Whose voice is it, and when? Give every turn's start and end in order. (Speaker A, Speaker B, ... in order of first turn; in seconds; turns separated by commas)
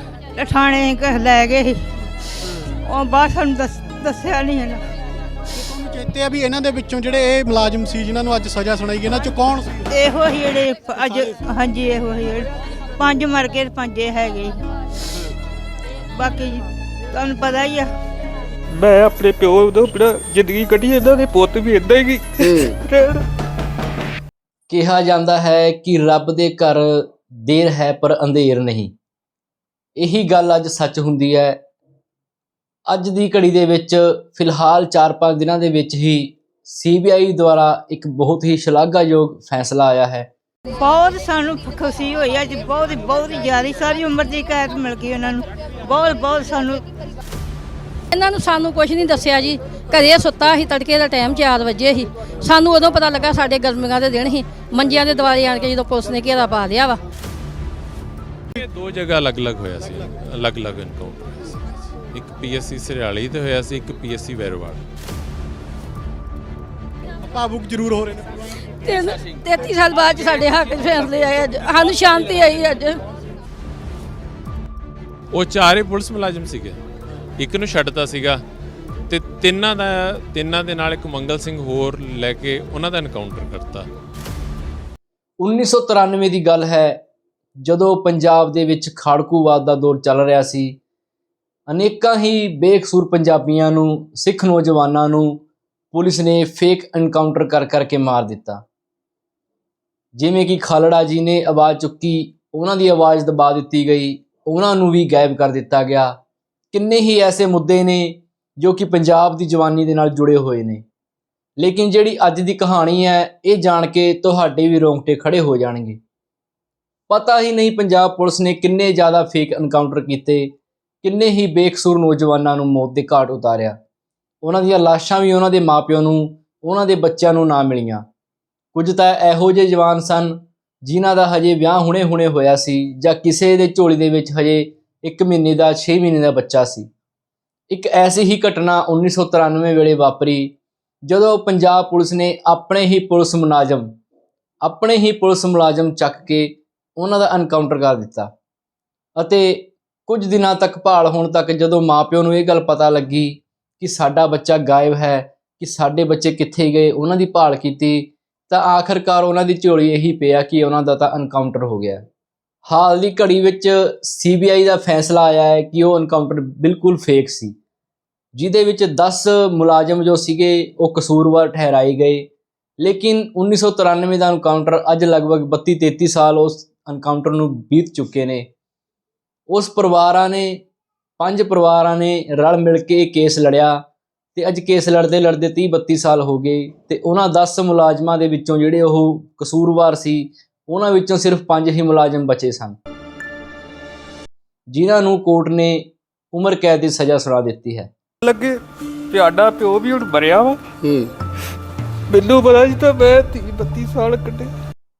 Speaker A: 0.4-1.8, Speaker A: 2.6-4.8, Speaker B: 5.6-9.9, Speaker A: 9.9-14.6, Speaker A: 16.1-17.9, Speaker C: 18.7-23.2, Speaker D: 24.7-28.9, Speaker D: 30.0-31.6, Speaker D: 32.9-40.3, Speaker A: 40.8-46.8, Speaker E: 48.1-57.0, Speaker F: 58.5-61.5, Speaker F: 62.1-64.8, Speaker B: 67.2-68.4, Speaker E: 68.8-73.0, Speaker F: 75.3-76.8, Speaker F: 77.4-78.4, Speaker F: 79.1-83.9, Speaker D: 85.4-87.0, Speaker D: 87.6-90.8, Speaker D: 91.7-98.6, Speaker D: 100.2-106.2, Speaker D: 106.7-110.8, Speaker D: 111.6-116.0, Speaker D: 117.1-123.8, Speaker D: 124.4-128.0, Speaker D: 128.7-136.9, Speaker D: 137.7-143.9, Speaker D: 144.6-148.3, Speaker D: 149.2-162.0, Speaker D: 162.7-167.5, Speaker D: 168.3-172.3, Speaker D: 172.8-178.5, Speaker D: 179.5-180.6, Speaker D: 181.2-183.8, Speaker D: 184.3-192.8, Speaker D: 194.7-197.9, Speaker C: 198.2-200.6, Speaker C: 202.1-204.5